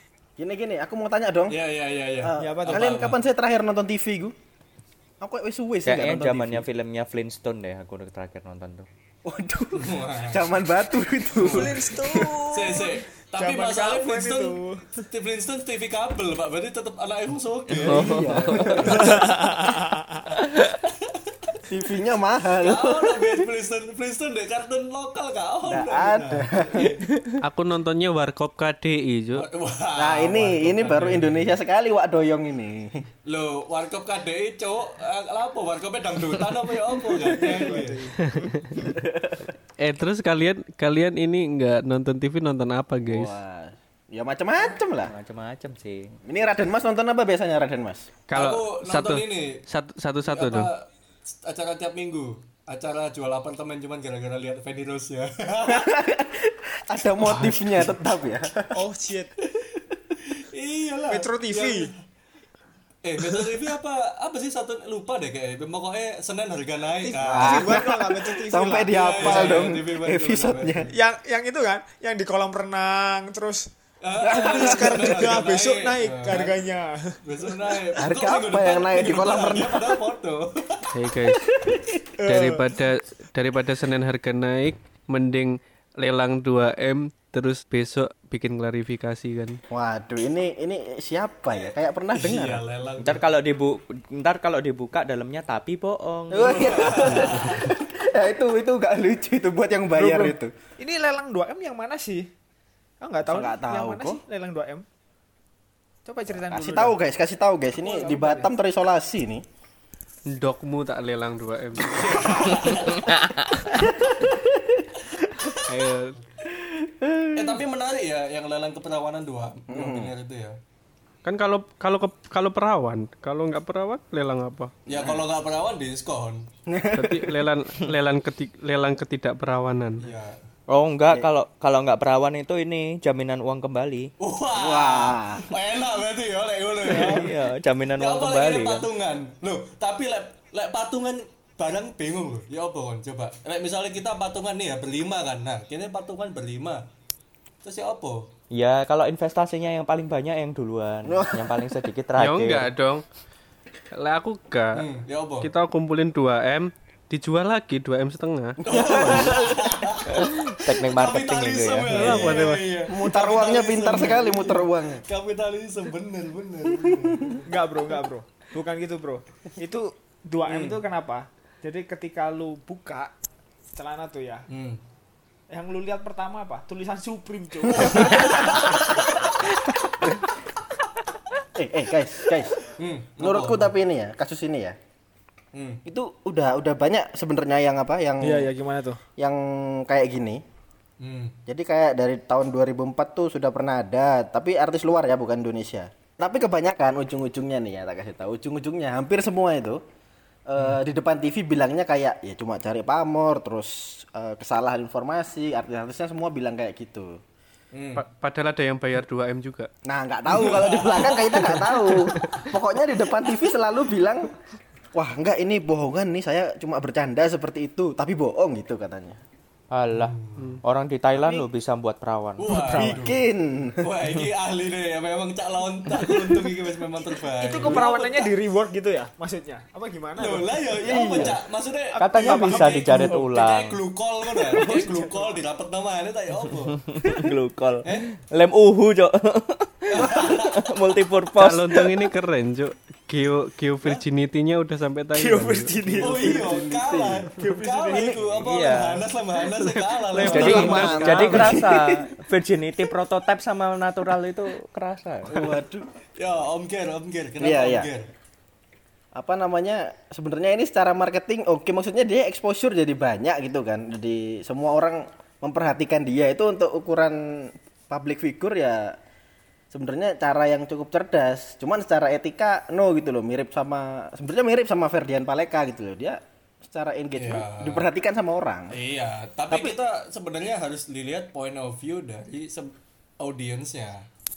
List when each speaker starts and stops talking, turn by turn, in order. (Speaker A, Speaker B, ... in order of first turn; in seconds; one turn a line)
Speaker A: 0.4-1.6
Speaker B: 1.5-3.2
Speaker A: 2.2-4.3
Speaker C: 2.4-2.9
Speaker A: 5.2-6.7
Speaker D: 5.8-8.9
Speaker A: 9.2-12.4
Speaker B: 9.8-10.5
Speaker B: 11.3-11.8
Speaker C: 11.4-15.0
Speaker B: 12.5-19.0
Speaker A: 17.8-19.2
Speaker D: 17.8-18.8
Speaker C: 18.8-20.4
Speaker B: 20.7-21.6
Speaker A: 21.7-23.4
Speaker B: 22.6-27.0
Speaker A: 25.6-26.9
Speaker E: 27.4-29.4
Speaker B: 29.4-31.5
Speaker A: 29.9-32.9
Speaker B: 33.2-38.1
Speaker C: 37.3-38.1
Speaker E: 38.2-38.8
Speaker A: 39.0-39.5
Speaker E: 39.8-43.4
Speaker A: 43.0-45.1
Speaker D: 45.1-46.1
Speaker A: 46.2-48.1
Speaker E: 48.3-50.7
Speaker B: 48.3-49.6
Speaker B: 50.3-55.9
Speaker A: 55.7-58.8
Speaker E: 57.2-57.8
Speaker C: 58.7-59.3
Speaker B: 60.2-61.9
Speaker C: 61.1-61.9
Speaker B: 63.0-67.8
Speaker C: 67.0-69.7
Speaker A: 67.2-70.9
Speaker B: 68.9-70.9
Speaker C: 70.9-73.7
Speaker B: 74.0-76.6
Speaker C: 74.2-77.2
Speaker A: 74.5-74.9
Speaker B: 77.2-80.9
Speaker A: 78.0-80.0
Speaker E: 80.9-81.4
Speaker A: 81.5-81.9
Speaker C: 82.2-82.6
Speaker E: 82.2-89.6
Speaker A: 89.7-92.6
Speaker B: 91.5-93.2
Speaker D: 93.0-96.5
Speaker A: 96.3-100.5
Speaker B: 96.3-97.7
Speaker C: 99.9-102.3
Speaker C: 103.0-104.8
Speaker A: 103.2-104.2
Speaker C: 106.0-107.0
Speaker A: 106.3-109.4
Speaker C: 107.8-108.5
Speaker E: 110.3-112.0
Speaker B: 111.8-113.3
Speaker A: 113.7-114.7
Speaker E: 115.7-116.1
Speaker A: 116.6-117.5
Speaker B: 117.3-120.5
Speaker A: 119.7-120.1
Speaker E: 121.2-124.7
Speaker B: 124.9-126.5
Speaker A: 124.9-125.2
Speaker A: 126.7-127.4
Speaker E: 126.9-130.0
Speaker B: 130.0-130.4
Speaker D: 130.7-134.1
Speaker B: 134.2-137.3
Speaker A: 134.5-135.4
Speaker C: 136.9-137.2
Speaker D: 137.1-138.8
Speaker B: 137.9-146.8
Speaker B: 147.6-148.3
Speaker D: 148.5-152.6
Speaker A: 151.0-151.7
Speaker E: 152.2-153.0
Speaker E: 153.9-154.8
Speaker B: 154.7-155.5
Speaker E: 155.4-159.4
Speaker B: 158.6-160.3
Speaker A: 158.7-159.3
Speaker D: 160.6-162.0
Speaker B: 160.9-167.4
Speaker E: 161.9-162.6
Speaker C: 162.0-162.4
Speaker A: 162.9-165.0
Speaker C: 167.5-173.1
Speaker B: 170.5-170.8
Speaker C: 173.8-174.4
Speaker B: 174.5-174.8
Speaker C: 175.5-178.8
Speaker B: 178.2-178.8
Speaker A: 181.6-182.7
Speaker B: 182.8-183.7
Speaker A: 183.2-184.7
Speaker B: 185.5-185.8
Speaker A: 185.8-188.5
Speaker C: 188.2-189.0
Speaker A: 189.2-190.4
Speaker B: 191.0-191.3
Speaker A: 191.5-199.8
Speaker A: 200.5-207.2
Speaker B: 207.7-208.0
Speaker E: 207.9-209.7
Speaker A: 209.8-214.3
Speaker B: 210.3-211.8
Speaker E: 211.8-212.4
Speaker A: 214.9-219.2
Speaker D: 219.7-220.1
Speaker B: 219.9-220.5
Speaker D: 220.6-222.4
Speaker C: 221.1-221.5
Speaker B: 222.4-223.2
Speaker C: 222.5-223.1
Speaker A: 222.7-223.9
Speaker B: 223.8-228.3
Speaker C: 227.3-231.2
Speaker B: 230.2-237.2
Speaker A: 230.8-231.4
Speaker C: 231.9-233.2
Speaker D: 232.0-233.8
Speaker C: 234.3-235.3
Speaker D: 237.0-241.7
Speaker B: 239.9-240.6
Speaker E: 241.4-245.8
Speaker C: 245.1-246.7
Speaker B: 246.0-251.4
Speaker A: 246.1-247.3
Speaker C: 247.3-248.4
Speaker A: 247.9-248.2
Speaker D: 248.5-249.1
Speaker E: 249.6-251.4
Speaker D: 250.1-255.3
Speaker A: 250.2-251.8
Speaker C: 251.3-251.8
Speaker A: 255.3-255.9
Speaker B: 256.1-258.1
Speaker A: 257.4-257.9
Speaker A: 259.1-268.9
Speaker A: 269.7-278.8
Speaker B: 277.1-277.9
Speaker B: 278.7-284.0
Speaker A: 279.5-279.8